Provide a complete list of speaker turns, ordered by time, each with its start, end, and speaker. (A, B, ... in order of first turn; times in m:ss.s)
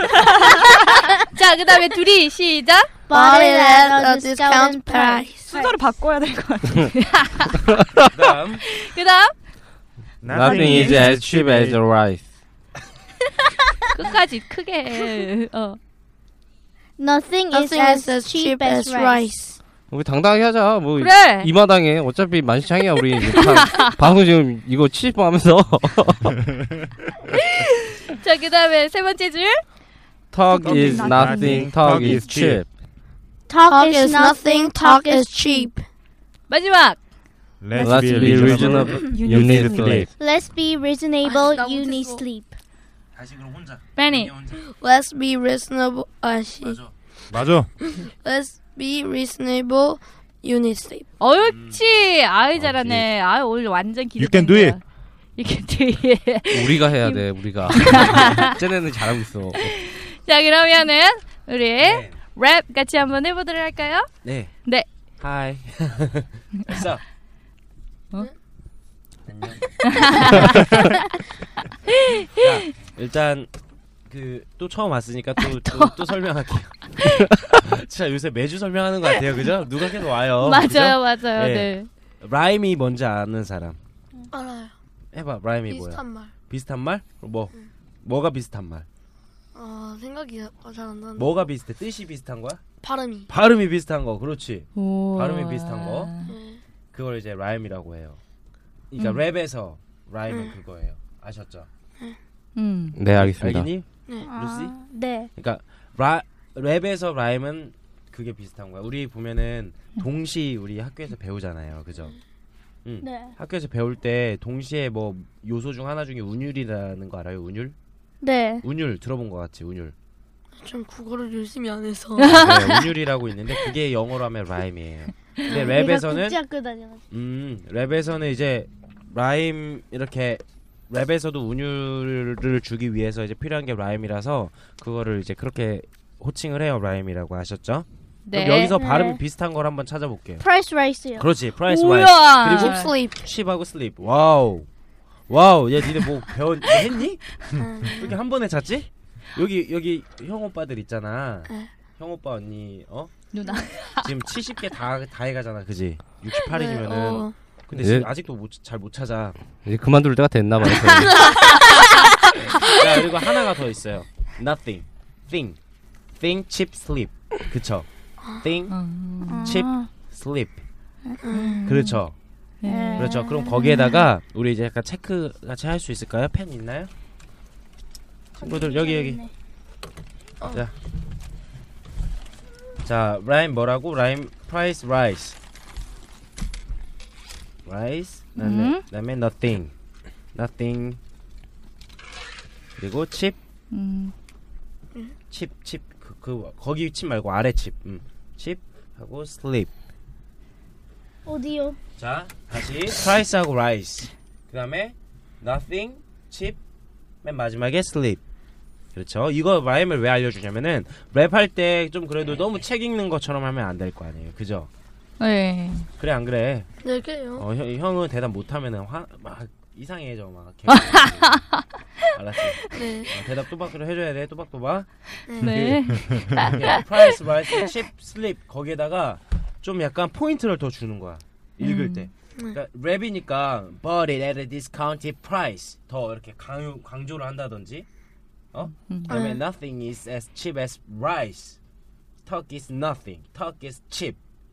0:00.4-0:02.9 A
0:03.1-0:05.5 B
0:03.1-0:05.8 C
0:05.5-0:06.9 D
0:07.2-0:07.5 A
0:07.8-0:08.1 E
0:08.1-0:08.6 F
0:08.7-0:09.3 A
0:10.2-0:11.8 G
0:10.3-0:12.2 E
0:13.9-0:15.8 A
0:17.0-0:19.3 C
0:17.5-0:19.6 B
0:19.9-0:26.4 E
0:21.0-0:21.5 A
0:23.4-0:23.9 A
0:27.3-0:29.6 A
0:30.3-0:32.7 E
0:30.5-0:32.2 D
0:30.6-0:32.6 G
0:33.5-0:35.7 C
0:33.6-0:35.8 B
0:36.5-0:37.0 A
0:37.6-0:40.1 G
0:37.8-0:40.1 E
0:39.0-0:40.0 D
0:40.2-0:42.5 C
0:41.2-0:42.2 B
0:43.1-0:44.6 F
0:44.0-0:44.3 A
0:44.6-0:46.8 B
0:46.6-0:46.9 F
0:47.3-0:47.7 G
0:47.9-0:51.1 B
0:51.2-0:54.8 A
0:51.4-0:51.8 F
0:52.7-0:53.0 E
0:54.2-0:54.8 G
0:55.4-0:58.6 A
0:56.5-0:59.7 E
0:59.6-1:04.1 A
1:01.8-1:02.2 F
1:04.2-1:04.5 F
1:05.2-1:07.0 F
1:09.2-1:10.7 F
1:09.8-1:10.9 A
1:11.9-1:12.6 A
1:12.4-1:13.5 F
1:14.1-1:23.8 F
1:15.4-1:16.0 A
1:20.4-1:21.9 A
1:24.3-1:24.7 B
1:25.1-1:28.9 F
1:25.7-1:26.3 B
1:29.5-1:31.5 B
1:31.2-1:32.6 F
1:32.8-1:33.3 B
1:33.3-1:36.1 F
1:34.8-1:36.3 A
1:36.2-1:36.6 B
1:36.9-1:38.2 F
1:38.9-1:41.7 F
1:40.3-1:40.5 B
1:42.6-1:43.0 A
1:42.9-1:43.7 E
1:43.1-1:44.7 F
1:44.2-1:45.3 C
1:45.4-1:52.2 F
1:52.8-1:57.8 F
1:53.0-1:53.3 C
1:58.2-1:58.6 C
1:58.6-1:59.9 F
2:00.6-2:02.6 B
2:02.2-2:02.7 A
2:02.2-2:06.4 F
2:05.4-2:07.0 C
2:05.5-2:05.8 B
2:07.1-2:20.4 F
2:18.2-2:18.8 A
2:18.7-2:19.2 C
2:20.4-2:21.3 C
2:21.2-2:24.7 F
2:21.7-2:22.9 A
2:22.4-2:23.2 B
2:25.3-2:27.2 F
2:27.6-2:28.2 B
2:27.9-2:33.1 F
2:33.3-2:34.1 A
2:33.9-2:39.4 F
2:36.5-2:37.3 B
2:37.8-2:38.1 E
2:39.6-2:41.4 E
2:41.1-2:41.7 B
2:41.6-2:42.0 A
2:42.5-2:45.6 F
2:46.2-2:47.9 F
2:48.4-2:48.7 F
2:48.7-2:49.6 A
2:49.2-2:49.9 C
2:49.4-2:50.6 F
2:51.0-2:51.6 C
2:51.2-2:51.6 B
2:51.3-2:52.0 A
2:51.6-2:52.1 F
2:52.6-2:53.1 A
2:52.6-2:54.0 C
2:53.0-2:56.9 F
2:58.4-2:59.3 C
2:58.4-2:59.2 F
3:02.8-3:05.4 F
3:07.6-3:09.7 F
3:08.4-3:08.8 A
3:10.3-3:11.0 F
3:12.8-3:13.4 F
3:13.7-3:14.1 A
3:15.3-3:19.7 F
3:21.2-3:21.8 C
3:22.0-3:26.6 F
3:27.2-3:28.2 F
3:28.9-3:34.7 F
3:35.2-3:35.9 A
3:36.0-3:36.7 F
3:36.8-3:37.4 B
3:37.4-3:41.4 F
3:40.7-3:41.6 A
3:42.1-3:44.9 F
3:42.7-3:43.1 B
3:45.3-3:45.6 B
3:45.4-3:47.6 A
3:45.5-3:57.8 F
3:45.6-3:46.3 G
3:51.6-3:52.1 A
3:58.5-4:01.6 F
3:59.1-3:59.4 B
4:02.2-4:04.2 F